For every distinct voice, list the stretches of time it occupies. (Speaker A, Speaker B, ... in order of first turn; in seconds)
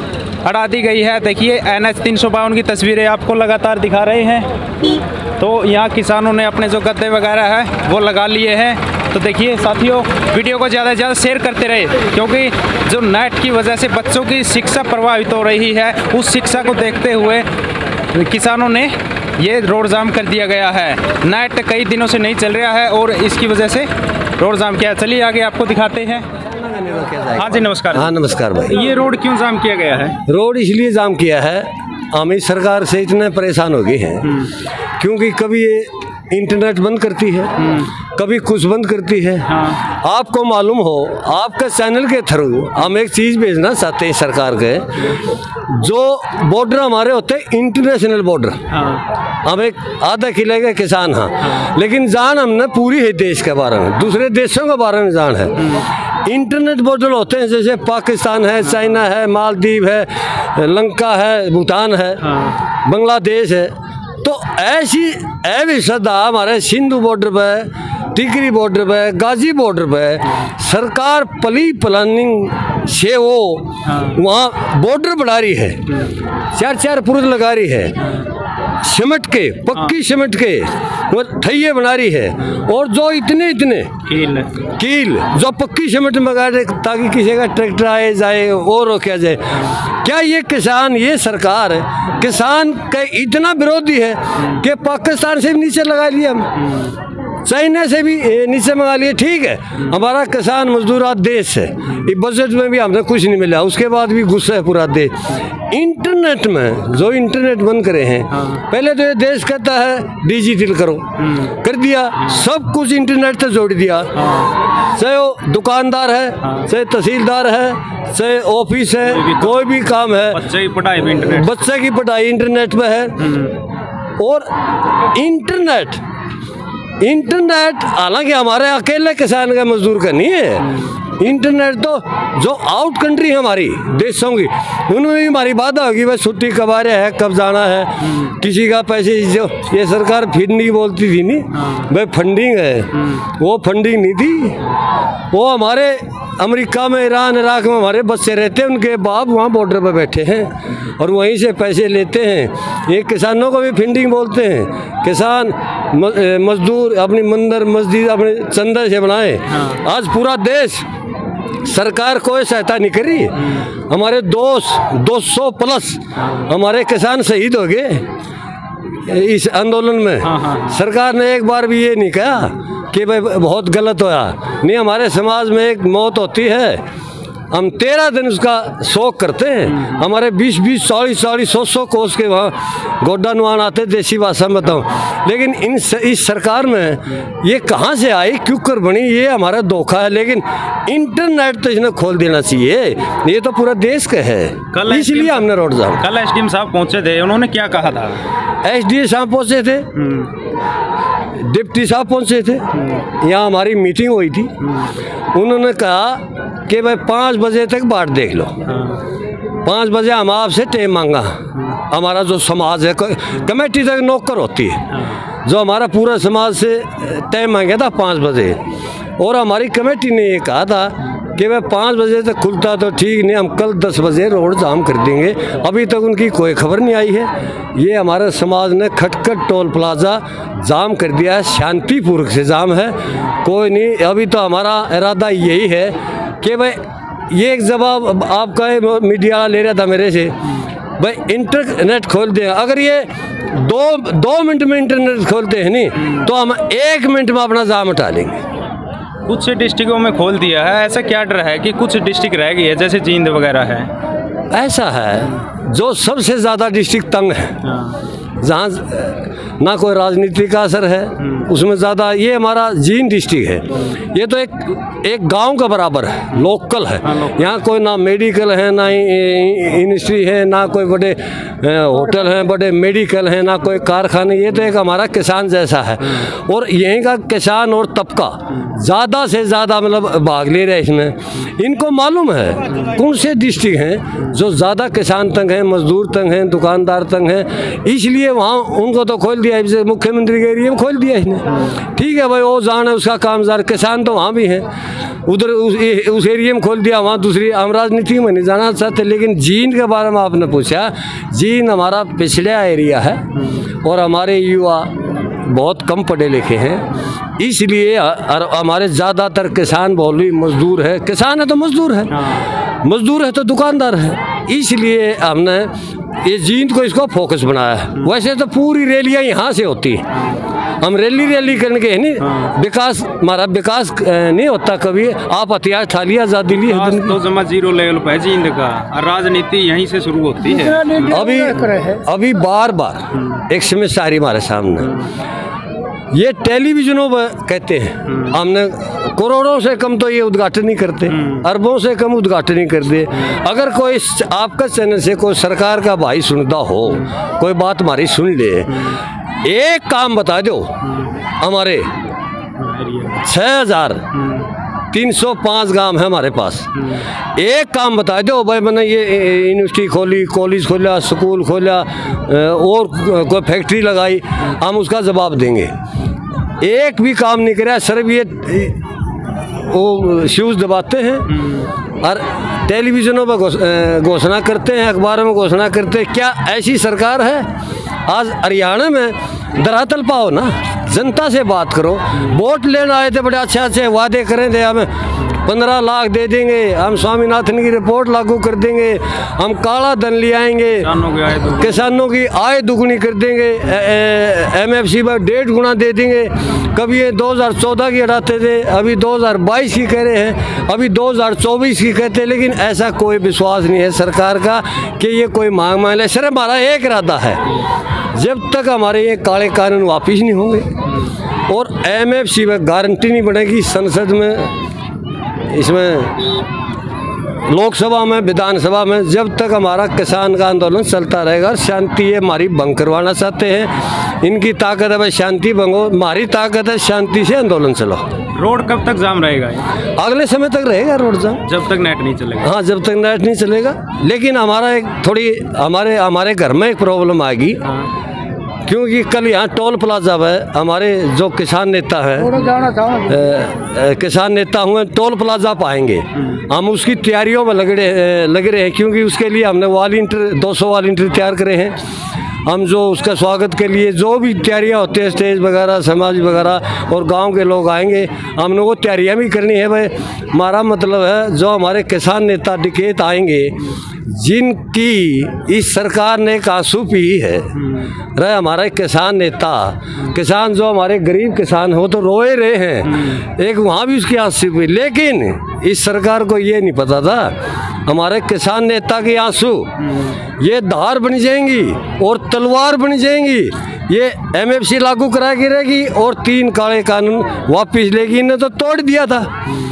Speaker A: 0.4-17.5, 18.1-26.3, 27.4-28.1, 28.7-30.2, 34.2-34.5, 37.6-37.9, 39.5-39.8, 48.7-49.0, 62.2-62.6, 73.8-74.2, 84.1-84.5, 108.3-108.6, 111.2-111.5, 114.2-114.5, 116.4-116.7, 119.0-119.7, 120.3-121.7, 123.2-123.5, 141.6-141.9, 159.5-159.8, 170.2-170.8, 179.7-180.0, 194.7-198.2, 199.9-200.3, 208.7-209.0, 249.3-253.9, 257.6-258.0, 267.1-267.4, 303.4-303.7, 312.1-312.5, 322.2-322.5, 326.6-331.1, 341.1-341.4, 352.6-353.2, 354.1-354.5, 356.8-357.0, 371.4-371.6, 390.8-391.8, 428.3-429.7, 431.4-432.5, 479.9-480.1
Speaker B: 26.6-28.8, 30.3-34.4, 35.0-37.6, 38.2-45.2, 45.7-48.6, 49.5-55.7, 56.2-62.2, 62.9-75.8, 76.5-78.0, 78.8-83.9, 84.8-96.5, 97.5-105.2, 105.7-114.1, 114.9-120.4, 121.0-123.4, 124.2-124.5, 125.1-126.0, 127.0-144.6, 145.3-160.9, 161.6-168.1, 169.1-176.8, 177.5-196.0, 198.6-199.9, 201.3-204.5, 205.3-208.6, 209.6-214.8, 215.4-218.6, 219.2-240.4, 241.0-248.4, 254.5-257.6, 258.4-294.7, 295.3-303.2, 303.8-312.2, 312.8-320.1, 320.8-327.2, 331.0-335.0, 336.1-348.8, 349.4-350.8, 351.4-351.9, 353.2-354.1, 354.9-356.7, 357.4-365.7, 366.6-371.4, 372.0-377.5, 378.1-390.9, 391.5-407.6, 408.1-410.7, 411.5-414.5, 415.5-416.4, 417.5-428.0, 430.0-431.4, 432.4-437.6, 438.7-451.8, 452.5-467.6, 468.2-479.7, 480.4-489.3